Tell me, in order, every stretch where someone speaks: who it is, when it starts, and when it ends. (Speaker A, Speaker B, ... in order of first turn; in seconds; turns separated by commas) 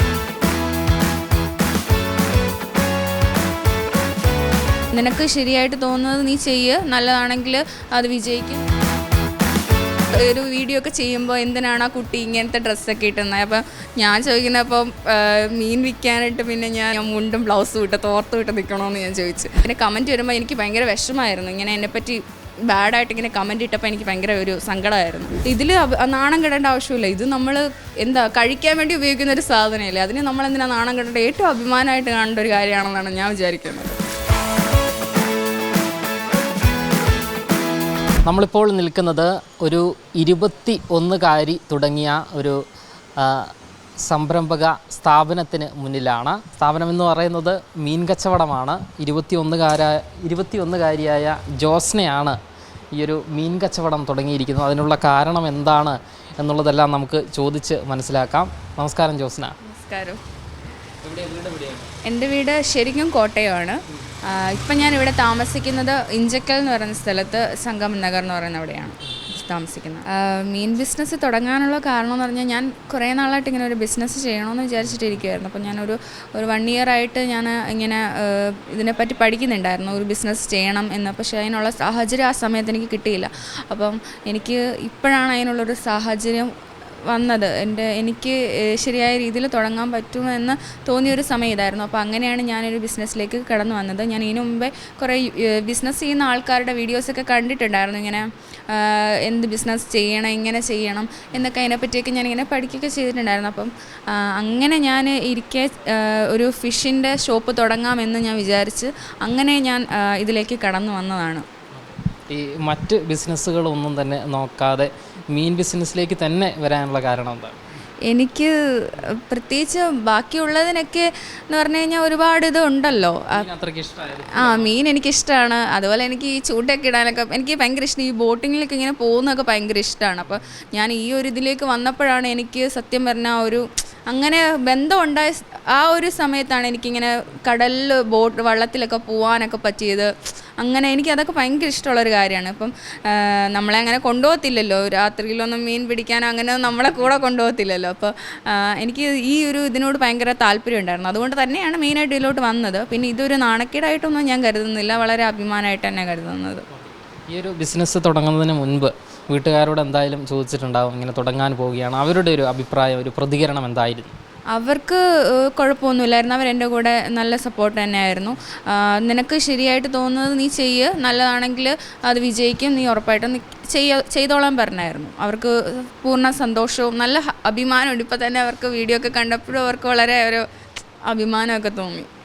Speaker A: 4.9-8.6, Speaker A: 10.1-34.0, Speaker B: 38.2-42.6, Speaker B: 43.2-52.4, Speaker B: 52.9-59.6, Speaker A: 59.6-60.2, Speaker B: 61.0-61.9, Speaker A: 62.0-86.5, Speaker A: 87.1-111.5, Speaker B: 111.8-117.6, Speaker A: 118.1-123.5, Speaker B: 123.3-124.7, Speaker A: 124.3-156.7, Speaker B: 157.3-164.2, Speaker A: 164.5-180.5, Speaker A: 181.1-182.1